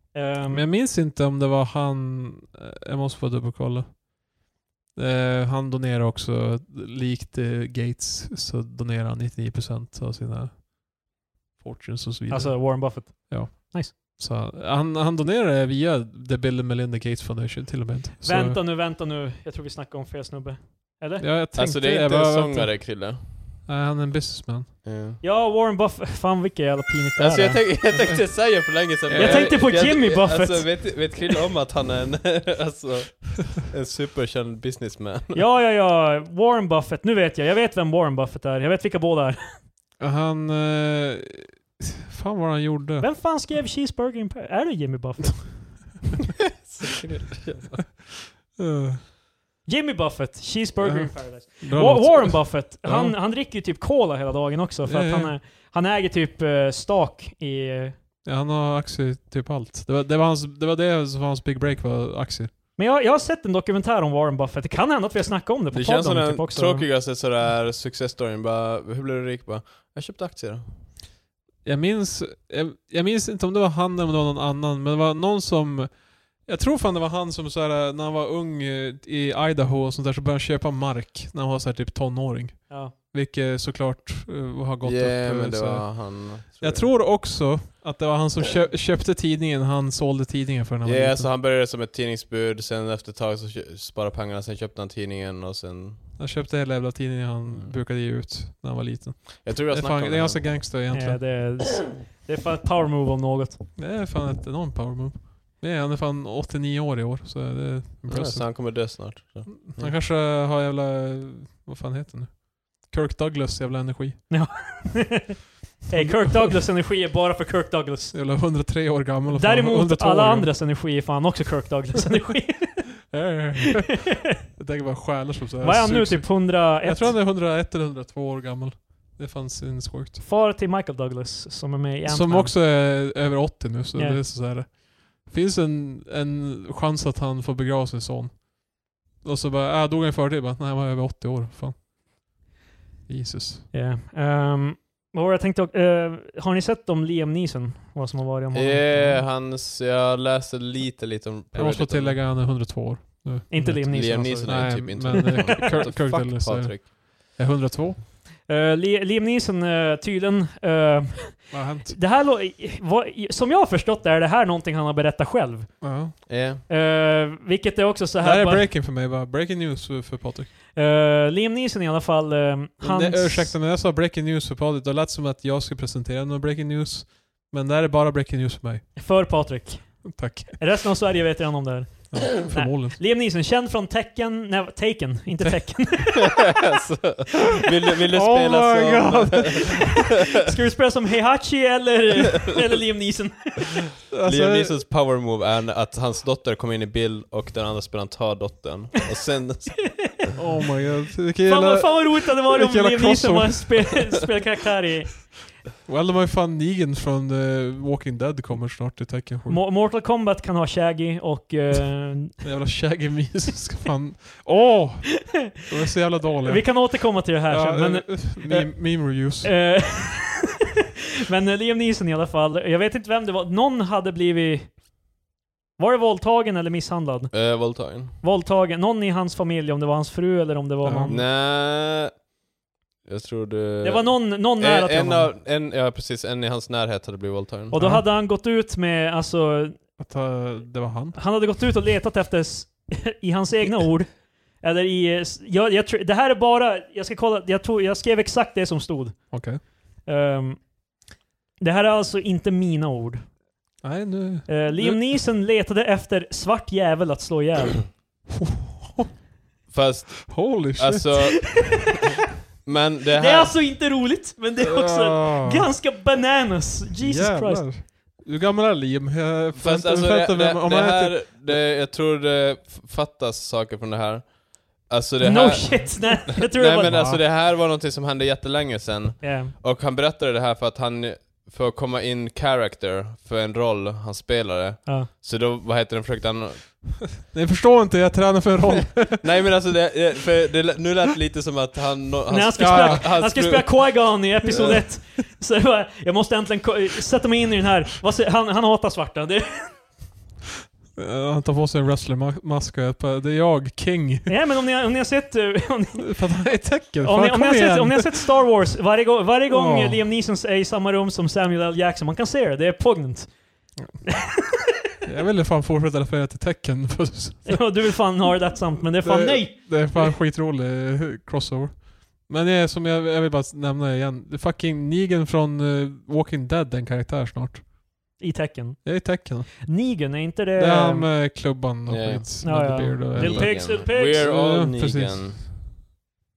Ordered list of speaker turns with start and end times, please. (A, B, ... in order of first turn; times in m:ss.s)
0:00.1-0:00.7 A
0:00.5-0:04.2 B
0:04.9-0:18.6 B
0:12.3-0:13.9 A
0:18.2-0:21.3 A
0:21.2-0:23.0 B
0:21.5-0:23.4 C
0:23.6-0:24.7 B
0:24.8-0:25.2 C
0:25.2-0:27.6 A
0:27.2-0:35.4 C
0:27.9-0:28.4 B
0:29.1-0:29.7 B
0:29.1-0:30.9 A
0:35.3-0:39.6 A
0:40.0-0:43.1 B
0:43.0-0:45.9 A
0:46.6-0:47.8 C
0:47.7-0:49.0 B
0:49.6-0:58.0 A
0:50.8-0:53.2 B
0:54.8-0:55.3 B
0:58.2-1:02.5 B
1:02.8-1:06.9 A
1:05.7-1:10.6 C
1:11.6-1:31.3 B
1:24.8-1:26.9 C
1:30.8-1:36.0 C
1:36.2-1:41.2 B
1:39.4-1:40.6 C
1:40.9-1:43.6 A
1:43.8-1:48.5 B
1:48.1-1:50.0 C
1:49.6-1:54.2 B
1:54.3-1:58.2 A
1:55.9-1:56.7 B
1:58.1-2:00.5 B
1:59.3-2:03.1 A
2:03.1-2:10.2 B
2:05.6-2:07.1 A
2:10.2-2:12.5 A
2:12.0-2:21.9 B
2:23.1-2:23.6 B
2:23.7-2:28.8 A
2:28.5-2:32.2 C
2:28.9-2:29.2 B
2:31.5-2:38.0 B
2:33.5-2:35.6 A
2:33.9-2:36.9 C
2:38.4-2:48.7 A
2:41.5-2:42.0 B
2:45.8-2:46.2 B
2:46.3-2:46.6 C
2:48.2-2:50.5 B
2:50.7-2:53.6 A
2:52.8-2:58.9 B
2:59.0-3:06.4 A
3:00.0-3:00.6 B
3:02.1-3:03.0 B
3:06.1-3:10.0 C
3:08.1-3:09.9 B
3:10.2-3:13.9 A
3:14.1-3:14.7 B
3:14.2-3:20.3 C
3:20.4-3:24.0 B
3:21.4-3:25.4 A
3:25.8-3:29.6 B
3:29.5-3:32.4 A
3:32.4-3:39.6 B
3:36.4-3:40.4 A
3:41.3-3:44.8 A
3:45.8-3:51.2 A
3:47.3-3:48.2 C
3:50.8-3:51.1 B
3:51.1-3:52.3 C
3:53.0-3:57.8 C
3:53.8-3:55.3 A
3:57.7-3:59.8 A
3:57.7-3:58.0 B
4:00.0-4:01.2 B
4:01.1-4:10.8 A
4:09.3-4:09.6 B
4:11.6-4:13.3 A
4:13.8-4:15.1 B
4:14.5-4:17.9 A
4:18.4-4:19.1 B
4:19.7-4:22.0 C
4:20.2-4:21.4 B
4:22.6-4:23.6 C
4:23.2-4:27.7 A
4:24.6-4:25.7 B
4:27.0-4:31.6 B
4:29.6-4:47.0 C
4:35.2-4:36.9 A
4:36.8-4:37.2 B
4:39.2-4:39.5 A
4:47.2-4:49.2 B
4:49.0-4:55.0 C
4:52.3-5:00.0 A
4:52.6-4:53.1 B
4:54.5-4:54.8 B
5:01.0-5:04.3 B
5:04.3-5:14.5 A
5:05.9-5:08.6 B
5:09.5-5:10.0 B
5:15.0-5:27.7 B
5:17.4-5:20.2 A
5:28.2-5:31.1 A
5:28.8-5:29.7 B
5:30.6-5:35.3 B
5:31.8-5:35.4 C
5:32.4-5:34.4 A